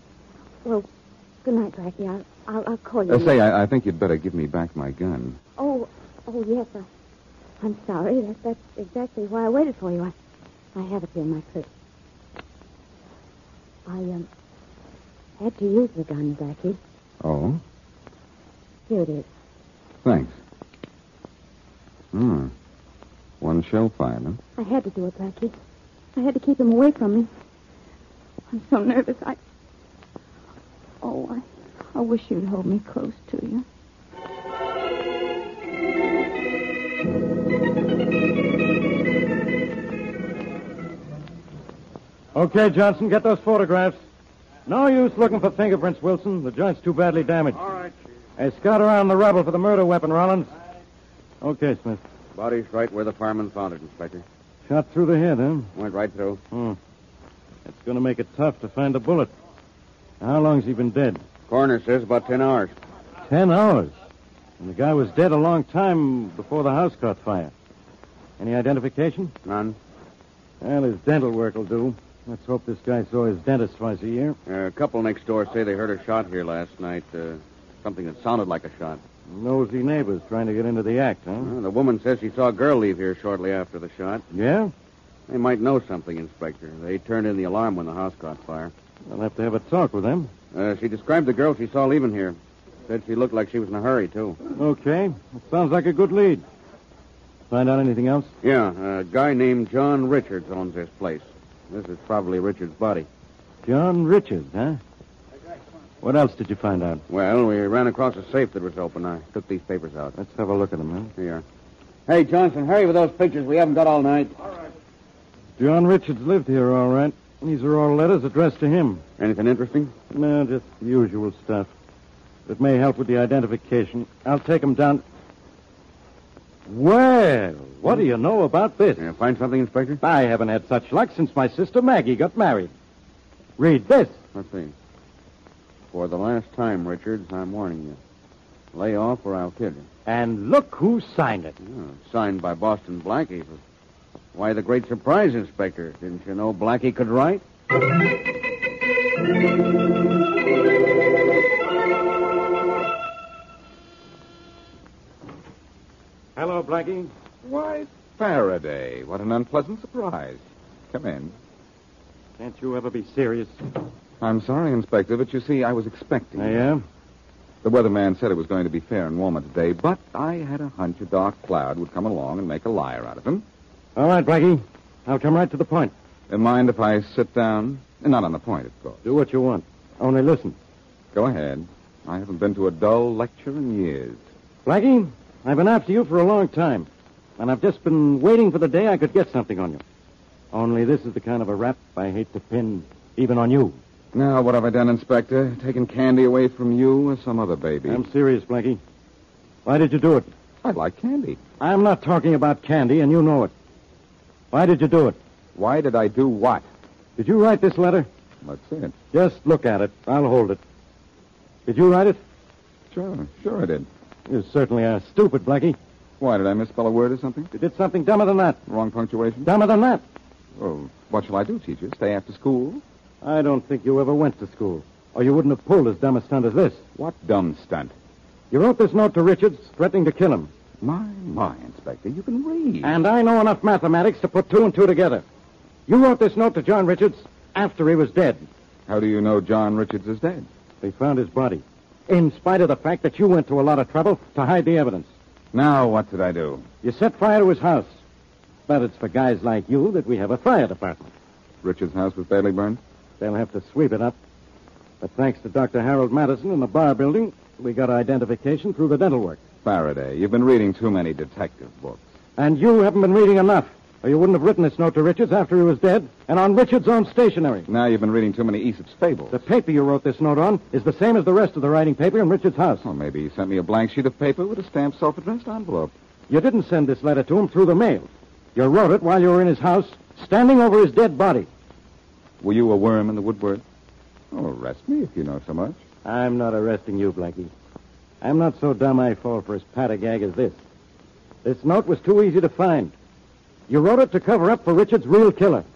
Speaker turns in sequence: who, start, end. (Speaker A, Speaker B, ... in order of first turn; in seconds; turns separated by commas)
Speaker A: 1.4-3.4, Speaker B: 3.1-5.4, Speaker A: 5.6-6.9, Speaker A: 7.6-10.1, Speaker A: 10.7-11.7, Speaker A: 13.8-14.3, Speaker A: 15.4-16.8, Speaker B: 17.2-17.6, Speaker A: 18.9-19.3, Speaker B: 20.0-20.4, Speaker B: 22.1-22.5, Speaker B: 23.4-24.4, Speaker A: 24.6-25.5, Speaker A: 26.1-27.3, Speaker A: 28.5-29.4, Speaker A: 31.0-33.6, Speaker C: 42.3-44.0, Speaker C: 44.7-47.7, Speaker C: 48.4-50.5, Speaker C: 51.4-52.0, Speaker D: 52.3-54.2, Speaker C: 54.7-55.7, Speaker D: 55.7-56.4, Speaker C: 56.5-56.8, Speaker C: 57.6-59.3, Speaker C: 60.2-61.2, Speaker D: 61.5-62.7, Speaker C: 63.3-63.9, Speaker C: 64.6-67.5, Speaker C: 68.4-69.3, Speaker D: 69.4-69.8, Speaker C: 70.6-74.3, Speaker D: 74.5-79.0, Speaker C: 79.3-81.5, Speaker D: 81.4-84.2, Speaker C: 84.3-84.7, Speaker D: 85.3-88.7, Speaker C: 89.1-90.3, Speaker D: 90.5-94.4, Speaker C: 94.6-96.4, Speaker C: 97.5-98.3, Speaker D: 98.4-103.1, Speaker C: 103.6-104.8, Speaker C: 106.0-107.0, Speaker D: 107.1-110.1, Speaker C: 110.2-111.1, Speaker D: 111.2-111.4, Speaker D: 112.1-114.4, Speaker C: 115.6-119.0, Speaker D: 119.2-119.9, Speaker C: 120.1-121.7, Speaker C: 122.5-125.0, Speaker C: 126.7-129.1, Speaker D: 129.0-130.0, Speaker C: 130.0-132.7, Speaker C: 133.6-134.2, Speaker D: 134.3-134.7, Speaker D: 135.9-138.0, Speaker D: 138.7-139.9, Speaker C: 140.1-141.5, Speaker D: 141.6-143.6, Speaker D: 144.3-147.4, Speaker C: 156.3-157.1, Speaker B: 157.4-161.3, Speaker C: 162.4-163.5, Speaker B: 164.2-166.7, Speaker C: 166.3-166.8, Speaker B: 167.6-173.4, Speaker C: 173.9-175.9, Speaker B: 176.3-179.0, Speaker C: 179.0-180.6, Speaker B: 181.1-184.2, Speaker C: 184.6-186.9, Speaker C: 187.4-189.8, Speaker C: 190.5-193.8, Speaker B: 194.1-198.0, Speaker C: 197.9-198.8, Speaker C: 199.7-200.3, Speaker B: 200.6-201.4, Speaker C: 201.6-203.5, Speaker C: 204.5-205.2, Speaker B: 205.5-206.7, Speaker C: 207.2-208.1, Speaker B: 208.4-208.9, Speaker C: 209.1-210.6, Speaker C: 211.7-212.2, Speaker B: 212.9-213.9, Speaker C: 214.3-215.8, Speaker B: 216.2-217.5, Speaker C: 217.5-218.6, Speaker B: 218.7-219.5, Speaker C: 219.4-220.0, Speaker B: 220.6-222.8, Speaker C: 223.2-226.8, Speaker B: 226.9-227.9, Speaker C: 228.5-230.5, Speaker B: 230.8-233.0, Speaker C: 232.8-235.2, Speaker C: 235.9-238.4, Speaker B: 238.9-240.5, Speaker C: 240.8-245.1, Speaker B: 245.5-246.7, Speaker C: 246.8-247.9, Speaker C: 248.7-251.1, Speaker B: 251.6-252.8, Speaker C: 253.2-254.2, Speaker C: 255.0-259.4, Speaker B: 259.6-262.0, Speaker C: 262.4-267.7, Speaker B: 267.7-269.4, Speaker C: 269.3-272.8, Speaker B: 272.8-275.9, Speaker C: 276.3-281.5, Speaker B: 282.4-283.6, Speaker B: 284.3-285.8, Speaker C: 286.0-287.5, Speaker C: 288.2-290.6, Speaker C: 291.4-292.9, Speaker C: 293.7-295.6